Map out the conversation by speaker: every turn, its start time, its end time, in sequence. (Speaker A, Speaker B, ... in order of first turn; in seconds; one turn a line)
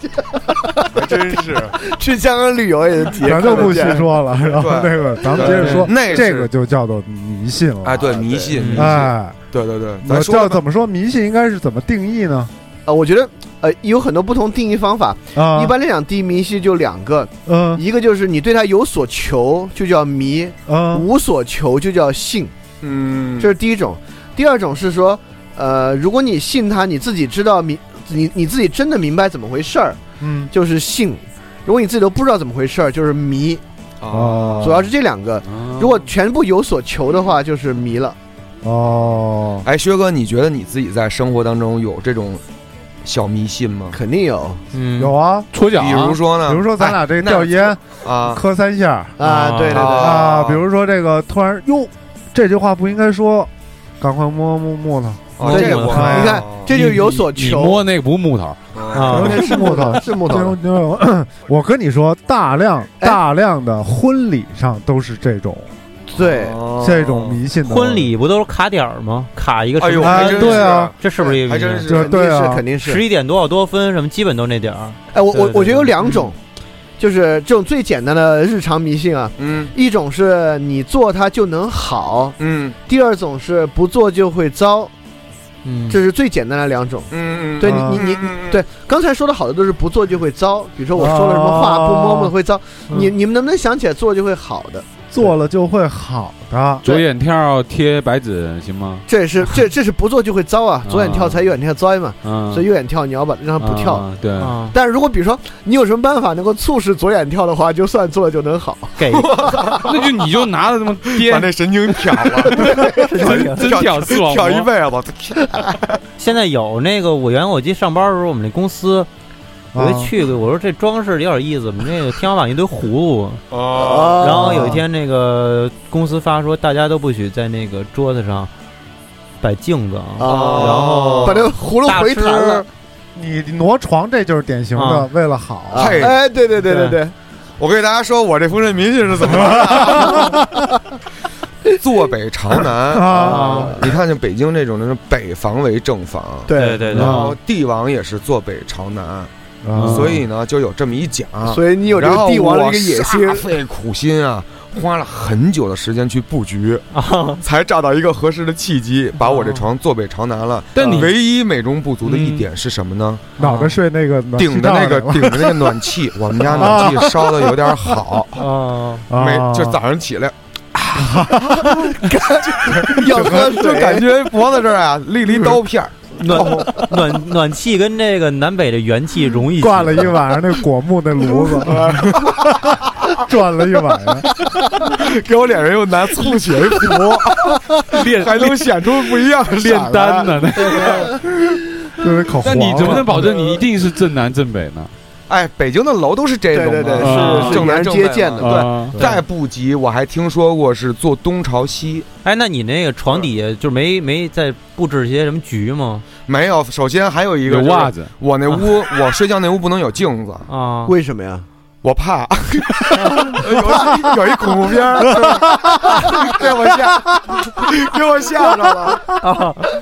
Speaker A: 0.9-1.8
Speaker B: 1.5-4.1
Speaker C: 3.2-8.1
Speaker A: 4.5-6.5
Speaker A: 7.8-10.6
Speaker B: 8.0-8.6
Speaker D: 8.5-8.9
Speaker C: 8.7-9.4
Speaker C: 10.0-12.5
Speaker B: 12.8-22.5
Speaker C: 15.3-15.7
Speaker C: 17.4-17.8
Speaker C: 20.7-21.1
Speaker A: 22.8-23.5
Speaker B: 23.4-30.0
Speaker C: 30.2-30.5
Speaker B: 30.5-33.6
Speaker A: 34.0-34.8
Speaker C: 34.1-34.9
Speaker B: 34.6-38.1
Speaker E: 35.5-36.0
Speaker C: 38.6-39.6
Speaker A: 39.6-42.4
Speaker A: 43.0-44.0
Speaker B: 43.9-44.6
Speaker D: 44.7-45.1
Speaker C: 45.0-45.5
Speaker E: 45.5-46.2
Speaker A: 45.7-48.4
Speaker C: 46.5-49.2
Speaker B: 49.2-50.3
Speaker D: 49.2-49.9
Speaker A: 49.7-50.6
Speaker C: 49.8-56.5
Speaker A: 55.4-56.7
Speaker B: 55.4-57.8
Speaker D: 55.4-56.0
Speaker E: 56.7-58.6
Speaker A: 58.7-59.5
Speaker D: 58.9-59.4
Speaker C: 59.1-65.7
Speaker B: 59.1-60.6
Speaker B: 66.1-66.6
Speaker A: 66.2-67.4
Speaker C: 66.8-68.1
Speaker D: 67.6-71.9
Speaker A: 69.8-72.1
Speaker C: 70.0-70.9
Speaker C: 71.8-72.6
Speaker B: 71.9-73.0
Speaker D: 72.8-76.2
Speaker B: 75.1-76.3
Speaker B: 77.0-84.9
Speaker A: 79.4-79.7
Speaker A: 82.4-82.8
Speaker D: 85.6-86.0
Speaker B: 85.9-95.3
Speaker A: 87.1-88.6
Speaker C: 87.6-88.0
Speaker C: 90.9-92.3
Speaker C: 95.1-96.8
Speaker E: 96.8-99.0
Speaker B: 99.1-104.0
Speaker E: 100.8-101.5
Speaker E: 102.2-102.7
Speaker E: 103.6-104.5
Speaker D: 104.4-104.7
Speaker B: 104.7-109.8
Speaker D: 109.0-109.3
Speaker A: 109.1-109.9
Speaker E: 109.8-111.5
Speaker A: 111.1-116.0
Speaker E: 112.6-114.7
Speaker D: 112.7-113.9
Speaker D: 116.2-119.1
Speaker C: 119.7-120.1
Speaker D: 119.8-123.4
Speaker A: 123.5-124.5
Speaker B: 123.7-124.8
Speaker D: 124.0-128.5
Speaker D: 129.4-132.7
Speaker B: 130.2-132.7
Speaker A: 130.2-131.5
Speaker C: 133.1-136.1
Speaker D: 134.7-135.1
Speaker B: 135.7-137.1
Speaker A: 135.7-136.2
Speaker D: 136.6-137.0
Speaker A: 137.6-140.3
Speaker C: 139.5-140.4
Speaker A: 141.8-149.3
Speaker C: 142.9-143.6
Speaker B: 143.1-143.9
Speaker D: 143.2-143.7
Speaker B: 146.4-147.2
Speaker D: 146.5-147.3
Speaker C: 147.0-147.2
Speaker C: 149.6-150.2
Speaker E: 149.7-150.2
Speaker A: 149.8-156.8
Speaker B: 151.4-153.5
Speaker D: 156.9-157.4
Speaker A: 157.4-163.2
Speaker D: 159.3-159.6
Speaker E: 160.7-161.1
Speaker D: 160.8-161.1
Speaker C: 163.4-165.7
Speaker D: 163.4-163.7
Speaker A: 164.4-168.4
Speaker C: 166.5-167.4
Speaker D: 168.3-169.0
Speaker C: 169.1-169.8
Speaker A: 169.1-171.7
Speaker C: 170.9-171.7
Speaker B: 171.9-174.1
Speaker A: 172.7-176.8
Speaker C: 172.8-173.4
Speaker D: 176.2-180.2
Speaker C: 179.6-184.3
Speaker A: 181.7-182.6
Speaker A: 184.8-191.0
Speaker E: 187.9-188.7
Speaker E: 189.4-191.2
Speaker C: 192.0-193.2
Speaker E: 192.4-194.9
Speaker A: 195.3-202.1
Speaker B: 196.5-199.0
Speaker E: 197.0-197.7
Speaker D: 197.1-197.5
Speaker E: 198.4-199.0
Speaker D: 202.2-206.1
Speaker A: 206.3-210.5
Speaker E: 207.5-208.1
Speaker D: 210.5-210.9
Speaker B: 210.8-211.5
Speaker A: 211.8-219.2
Speaker C: 215.2-216.1
Speaker D: 219.2-219.6